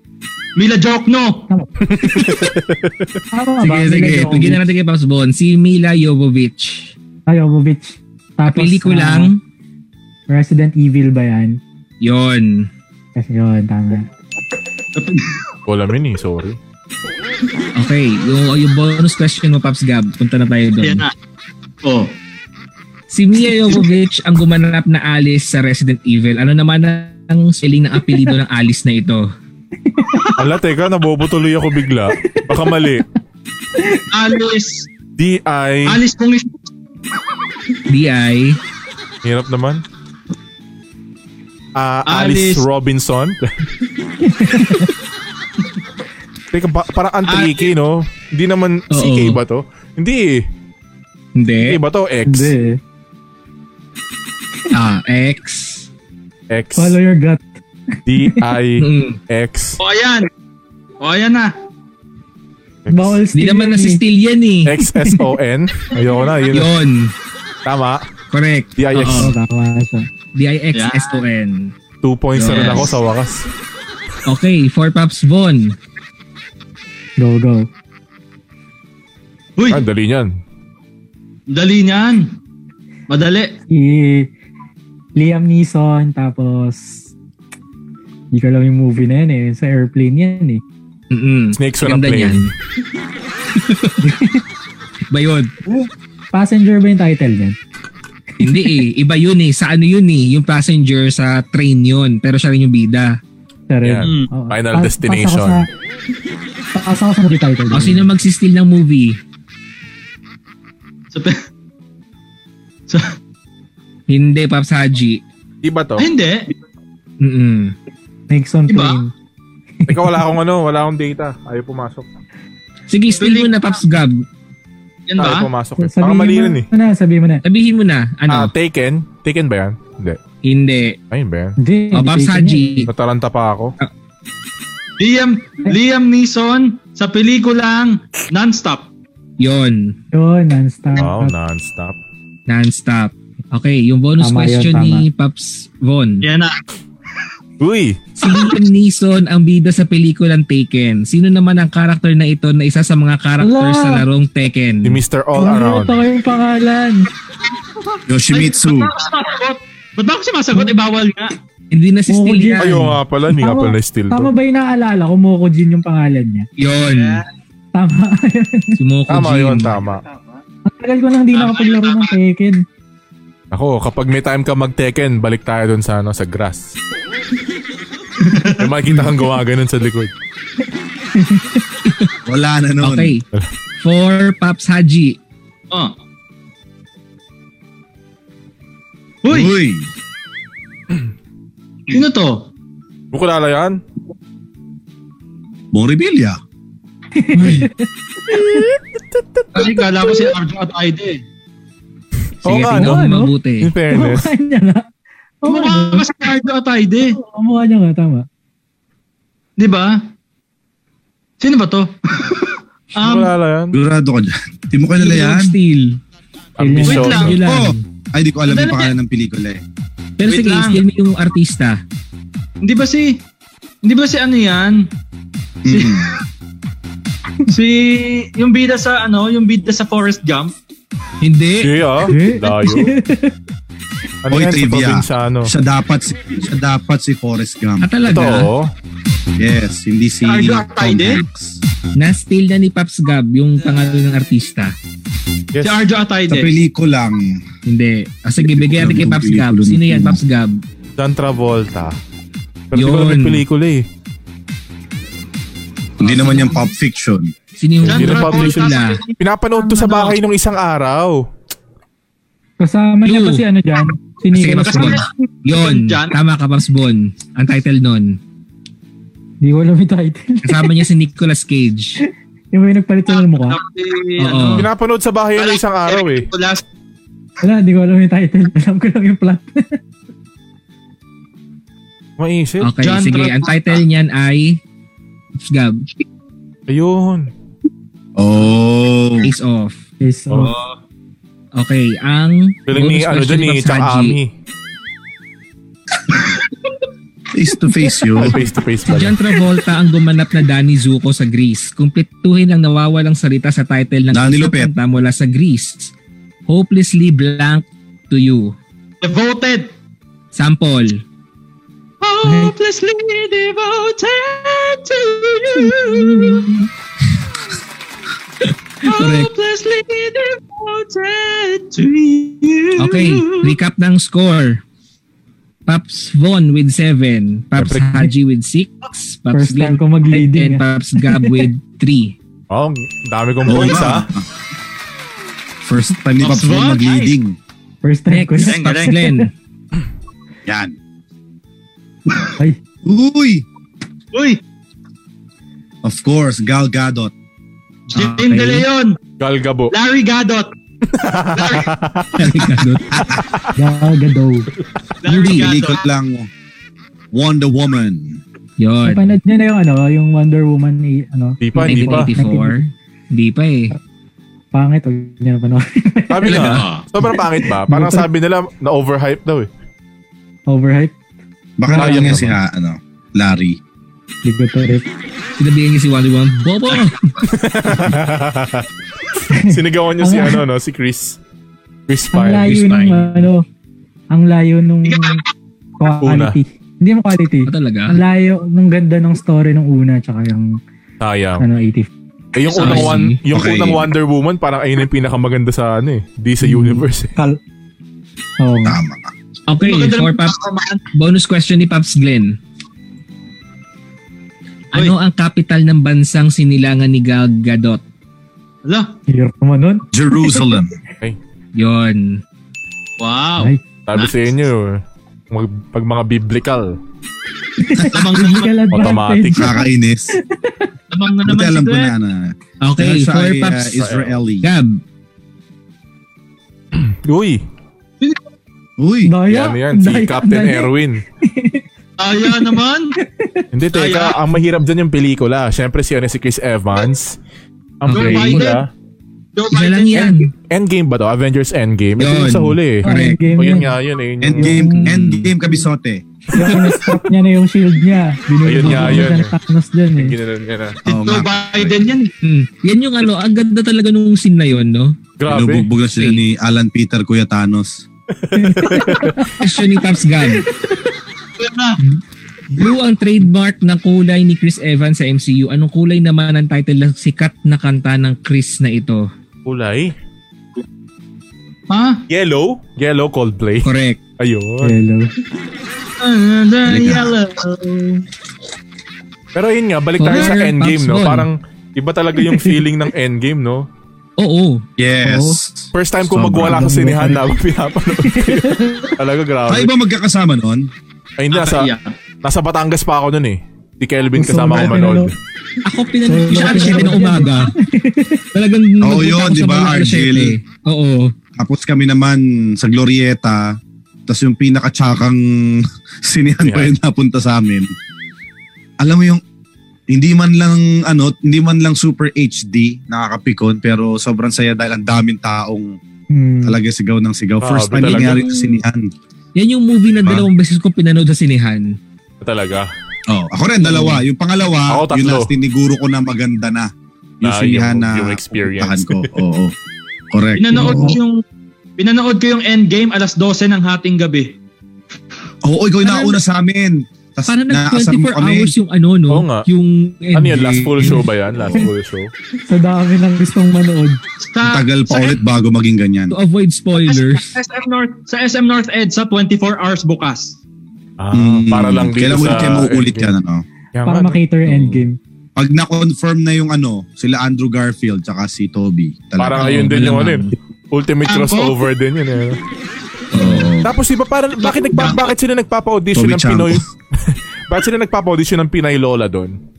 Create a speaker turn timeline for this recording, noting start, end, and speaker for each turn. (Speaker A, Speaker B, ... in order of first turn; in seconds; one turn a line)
Speaker A: 0.6-1.4
Speaker B: 1.5-2.3
Speaker C: 1.8-3.1
Speaker B: 3.3-4.7
Speaker D: 3.6-6.9
Speaker B: 7.3-9.3
Speaker D: 8.5-9.4
Speaker B: 10.3-11.6
Speaker D: 12.0-12.7
Speaker B: 13.2-14.1
Speaker A: 14.9-15.3
Speaker C: 15.7-16.6
Speaker D: 17.8-21.0
Speaker A: 20.8-21.1
Speaker A: 21.8-22.1
Speaker D: 23.1-29.3
Speaker B: 29.9-30.4
Speaker C: 30.4-33.0
Speaker B: 32.2-32.7
Speaker B: 33.8-34.0
Speaker A: 34.1-34.9
Speaker C: 35.2-36.0
Speaker A: 35.8-36.6
Speaker D: 37.9-38.6
Speaker C: 39.2-39.8
Speaker C: 41.8-43.4
Speaker A: 42.0-42.6
Speaker B: 44.2-44.9
Speaker C: 46.5-50.4
Speaker A: 47.2-47.7
Speaker D: 48.9-49.4
Speaker D: 51.4-51.8
Speaker C: 51.6-52.5
Speaker B: 52.2-52.8
Speaker D: 54.7-55.9
Speaker C: 56.5-57.0
Speaker B: 56.8-57.4
Speaker C: 58.0-59.8
Speaker D: 58.8-59.2
Speaker A: 59.8-60.3
Speaker A: 61.0-61.5
Speaker C: 62.8-63.2
Speaker B: 62.9-64.0
Speaker D: 63.3-64.7
Speaker C: 64.6-66.7
Speaker B: 64.8-65.3
Speaker D: 66.5-67.1
Speaker C: 67.6-68.0
Speaker D: 68.3-69.3
Speaker C: 68.8-69.3
Speaker B: 69.1-70.0
Speaker D: 70.3-71.7
Speaker A: 70.7-71.1
Speaker C: 72.0-73.5
Speaker D: 72.3-73.0
Speaker A: 72.5-72.9
Speaker D: 74.2-75.8
Speaker B: 77.2-77.7
Speaker A: 79.6-79.8
Speaker C: 79.7-80.3
Speaker A: 81.5-82.3
Speaker A: 83.1-83.5
Speaker B: 83.7-84.3
Speaker B: 85.2-87.1
Speaker B: 88.3-90.6
Speaker D: 91.1-92.5
Speaker C: 91.5-92.5
Speaker D: 93.5-94.0
Speaker B: 94.0-94.4
Speaker D: 95.1-95.5
Speaker B: 96.3-97.5
Speaker B: 98.4-98.8
Speaker D: 98.4-103.2
Speaker B: 103.7-105.7
Speaker C: 103.8-105.6
Speaker A: 104.0-104.3
Speaker B: 106.7-108.1
Speaker D: 107.7-109.2
Speaker A: 111.1-111.4
Speaker D: 114.1-115.2
Speaker C: 115.6-116.1
Speaker A: 116.0-116.5
Speaker D: 117.2-117.7
Speaker B: 118.3-119.1
Speaker A: 118.7-119.0
Speaker B: 119.8-120.2
Speaker C: 119.9-122.0
Speaker D: 122.9-124.1
Speaker A: 123.2-123.7
Speaker A: 125.1-125.5
Speaker C: 125.2-126.7
Speaker B: 125.8-127.4
Speaker D: 127.4-128.5
Speaker C: 128.3-130.2
Speaker D: 130.4-131.0
Speaker C: 131.1-131.6
Speaker B: 131.6-132.9
Speaker D: 131.9-132.9
Speaker C: 132.9-133.7
Speaker A: 135.0-138.9
Speaker D: 139.4-139.9
Speaker B: 140.1-141.3
Speaker C: 140.9-142.0
Speaker D: 142.5-146.2
Speaker B: 144.2-145.1
Speaker A: 146.2-146.6
Speaker C: 147.6-148.1
Speaker D: 148.2-155.0
Speaker B: 153.4-154.1
Speaker C: 154.8-156.0
Speaker B: 155.3-157.1
Speaker A: 157.8-161.3
Speaker E: 158.1-158.9
Speaker D: 161.7-162.9
Speaker B: 162.1-166.5
Speaker C: 162.6-164.3
Speaker D: 166.6-167.2
Speaker A: 166.8-167.2
Speaker B: 167.7-168.8
Speaker D: 168.8-169.8
Speaker C: 169.1-170.0
Speaker B: 170.7-172.6
Speaker A: 171.3-172.2
Speaker C: 173.5-176.8
Speaker A: 178.2-178.7
Speaker C: 178.5-180.1
Speaker B: 181.1-181.6
Speaker E: 182.2-183.2
Speaker D: 182.8-183.2
Speaker D: 183.8-185.2
Speaker A: 189.2-189.5
Speaker E: 189.3-189.9
Speaker A: 191.9-192.5
Speaker C: 193.1-193.8
Speaker E: 195.7-196.4
Speaker B: 197.1-198.6
Speaker C: 198.3-198.8
Speaker A: 199.5-201.2
Speaker D: 202.4-203.7
Speaker C: 202.4-204.3
Speaker B: 202.7-203.3
Speaker B: 203.9-204.8
Speaker B: 205.4-206.1
Speaker A: 205.4-207.2
Speaker B: 207.0-208.2
Speaker A: 209.6-210.0
Speaker A: 211.4-213.3
Speaker C: 212.9-213.8
Speaker E: 213.7-215.5
Speaker D: 215.0-216.0
Speaker B: 216.6-217.3
Speaker C: 216.6-217.3
Speaker A: 216.8-217.4
Speaker D: 216.9-217.8
Speaker E: 217.3-219.6
Speaker A: 218.5-218.9
Speaker D: 220.2-221.8
Speaker A: 220.3-220.8
Speaker A: 222.6-223.2
Speaker A: 223.8-224.9
Speaker E: 225.6-226.1
Speaker A: 225.7-226.1
Speaker A: 227.5-230.5
Speaker D: 231.2-231.7
Speaker C: 231.6-232.9
Speaker B: 232.0-233.3
Speaker C: 234.2-235.5
Speaker E: 234.3-237.9
Speaker D: 237.8-238.5
Speaker C: 238.1-238.7
Speaker E: 239.4-241.6
Speaker A: 240.2-241.2
Speaker D: 241.9-244.7
Speaker C: 245.5-245.8
Speaker A: 245.6-246.5
Speaker E: 246.3-247.4
Speaker D: 247.7-250.6
Speaker E: 248.4-250.2
Speaker C: 251.0-251.9
Speaker C: 252.7-253.8
Speaker D: 252.7-253.4
Speaker E: 256.0-257.3
Speaker D: 256.0-256.6
Speaker D: 257.6-259.0
Speaker C: 257.8-261.2
Speaker A: 257.8-260.1
Speaker B: 262.6-265.0
Speaker D: 263.0-263.4
Speaker D: 264.3-268.2
Speaker A: 264.5-266.2
Speaker B: 269.4-270.9
Speaker D: 270.4-272.0
Speaker B: 272.0-273.6
Speaker A: 273.1-274.7
Speaker D: 274.2-274.7
Speaker C: 274.6-276.3
Speaker A: 275.4-276.6
Speaker B: 277.4-279.8
Speaker C: 282.2-282.7
Speaker D: 282.6-284.6
Speaker A: 282.8-283.8
Speaker D: 285.4-285.9
Speaker C: 286.7-287.3
Speaker E: 288.2-289.3
Speaker D: 289.2-289.8
Speaker B: 290.0-290.5
Speaker D: 291.5-294.2
Speaker C: 292.7-294.3
Speaker E: 297.3-298.4
Speaker C: 298.1-299.1
Speaker D: 298.9-305.9
Speaker E: 304.1-304.7
Speaker D: 306.5-308.6
Speaker A: 309.0-309.7
Speaker D: 310.3-311.0
Speaker A: 312.0-316.6
Speaker D: 318.4-319.3
Speaker A: 318.8-323.6
Speaker D: 322.8-324.6
Speaker D: 325.6-332.1
Speaker C: 327.6-328.1
Speaker B: 329.3-331.5
Speaker C: 332.5-334.1
Speaker E: 333.4-334.2
Speaker E: 335.6-337.4
Speaker A: 336.2-337.1
Speaker B: 337.8-339.3
Speaker D: 338.1-339.3
Speaker A: 338.4-339.0
Speaker E: 340.4-340.7
Speaker E: 342.8-343.4
Speaker A: 344.1-344.4
Speaker E: 345.8-347.1
Speaker A: 347.9-349.0
Speaker D: 347.9-348.7
Speaker C: 349.2-349.7
Speaker A: 349.7-350.5
Speaker C: 350.9-352.5
Speaker A: 351.3-351.7
Speaker D: 352.2-353.0
Speaker E: 352.9-353.2
Speaker C: 353.1-353.5
Speaker B: 353.6-354.5
Speaker A: 355.0-355.8
Speaker D: 355.1-355.5
Speaker E: 355.3-356.3
Speaker E: 357.1-358.2
Speaker D: 358.6-359.1
Speaker B: 358.8-362.7
Speaker C: 361.4-362.1
Speaker D: 361.6-363.7
Speaker B: 364.5-368.1
Speaker C: 366.1-369.5
Speaker A: 366.3-366.8
Speaker B: 370.5-370.9
Speaker E: 371.6-373.6
Speaker B: 371.7-372.2
Speaker C: 371.8-372.4
Speaker B: 374.2-374.9
Speaker D: 375.4-377.1
Speaker C: 377.2-378.6
Speaker B: 379.3-380.4
Speaker C: 379.5-381.2
Speaker C: 381.9-382.6
Speaker B: 382.1-383.4
Speaker D: 382.4-383.3
Speaker B: 384.1-385.2
Speaker A: 384.8-385.2
Speaker B: 385.8-390.6
Speaker C: 386.0-386.4
Speaker D: 387.4-387.9
Speaker C: 391.0-391.4
Speaker B: 391.4-391.9
Speaker C: 392.3-397.1
Speaker A: 392.5-392.9
Speaker D: 392.6-393.2
Speaker E: 393.3-393.9
Speaker B: 396.4-397.4
Speaker B: 398.4-398.8
Speaker E: 398.6-399.1
Speaker D: 399.5-400.4
Speaker A: 399.6-400.8
Speaker D: 400.9-402.4
Speaker D: 404.7-407.8
Speaker B: 409.1-410.5
Speaker E: 409.9-410.7
Speaker D: 411.5-412.2
Speaker A: 413.0-414.1
Speaker C: 413.9-416.8
Speaker B: 417.6-420.7
Speaker A: 417.9-418.6
Speaker C: 418.7-419.6
Speaker E: 419.3-420.1
Speaker A: 420.9-421.9
Speaker E: 421.2-424.5
Speaker D: 422.6-423.8
Speaker C: 423.8-424.2
Speaker D: 424.4-424.8
Speaker C: 426.7-427.4
Speaker E: 428.8-429.1
Speaker B: 429.1-431.6
Speaker C: 429.3-431.0
Speaker A: 432.0-432.9
Speaker B: 432.2-433.4
Speaker C: 433.5-437.2
Speaker A: 433.7-434.2
Speaker C: 437.8-438.7
Speaker D: 437.9-438.5
Speaker A: 437.9-438.6
Speaker A: 439.4-440.3
Speaker D: 439.5-440.3
Speaker C: 440.5-444.6
Speaker D: 442.0-443.2
Speaker B: 442.8-443.7
Speaker E: 444.2-446.0
Speaker B: 444.4-444.9
Speaker D: 444.8-445.3
Speaker B: 446.3-450.1
Speaker D: 446.3-446.9
Speaker C: 448.4-449.3
Speaker D: 448.6-449.0
Speaker C: 449.9-450.8
Speaker E: 450.9-451.8
Speaker A: 450.9-452.1
Speaker D: 452.2-455.0
Speaker C: 455.2-455.7
Speaker E: 455.3-457.8
Speaker D: 455.9-456.2
Speaker C: 458.2-459.3
Speaker B: 458.3-459.5
Speaker D: 459.4-460.4
Speaker B: 460.2-460.8
Speaker A: 461.4-461.8
Speaker D: 462.5-469.1
Speaker C: 469.4-469.9
Speaker A: 471.7-472.0
Speaker C: 472.1-474.8
Speaker D: 473.6-474.0
Speaker B: 474.6-475.1
Speaker A: 476.0-478.0
Speaker E: 476.6-477.1
Speaker C: 479.3-483.6
Speaker D: 480.0-481.3
Speaker D: 484.2-485.4
Speaker E: 484.8-486.7
Speaker C: 485.7-489.7
Speaker B: 486.4-487.3
Speaker B: 488.0-488.9
Speaker E: 489.5-490.7
Speaker C: 491.2-491.7
Speaker A: 491.3-491.9
Speaker C: 492.2-495.1
Speaker B: 494.1-495.1
Speaker D: 495.6-497.5
Speaker B: 496.1-498.2
Speaker D: 498.3-501.1
Speaker E: 498.8-500.4
Speaker E: 501.4-503.6
Speaker E: 504.1-507.7
Speaker C: 506.4-506.7
Speaker E: 508.8-509.2
Speaker E: 509.9-515.8
Speaker B: 516.1-516.6
Speaker E: 516.4-518.9
Speaker C: 517.4-518.2
Speaker D: 517.8-518.6
Speaker D: 519.4-521.8
Speaker E: 520.0-520.3
Speaker C: 522.2-522.7
Speaker E: 523.1-526.7
Speaker D: 523.6-524.0
Speaker C: 524.7-525.3
Speaker E: 527.2-529.5
Speaker C: 527.2-529.2
Speaker E: 530.1-531.0
Speaker A: 530.4-531.2
Speaker A: 531.8-534.3
Speaker E: 535.4-538.5
Speaker D: 537.3-541.0
Speaker C: 539.1-539.5
Speaker C: 540.1-542.1
Speaker E: 541.3-541.7
Speaker B: 542.5-544.0
Speaker A: 544.2-545.2
Speaker E: 544.4-546.1
Speaker D: 546.1-547.4
Speaker A: 546.8-550.4
Speaker C: 551.0-553.1
Speaker E: 551.1-553.4
Speaker C: 553.7-554.7
Speaker B: 553.8-555.0
Speaker E: 555.4-559.5
Speaker C: 559.2-562.4
Speaker D: 559.3-560.3
Speaker A: 561.1-561.6
Speaker D: 563.1-563.5
Speaker E: 563.1-563.7
Speaker C: 563.6-569.4
Speaker E: 564.7-565.0
Speaker E: 565.9-566.6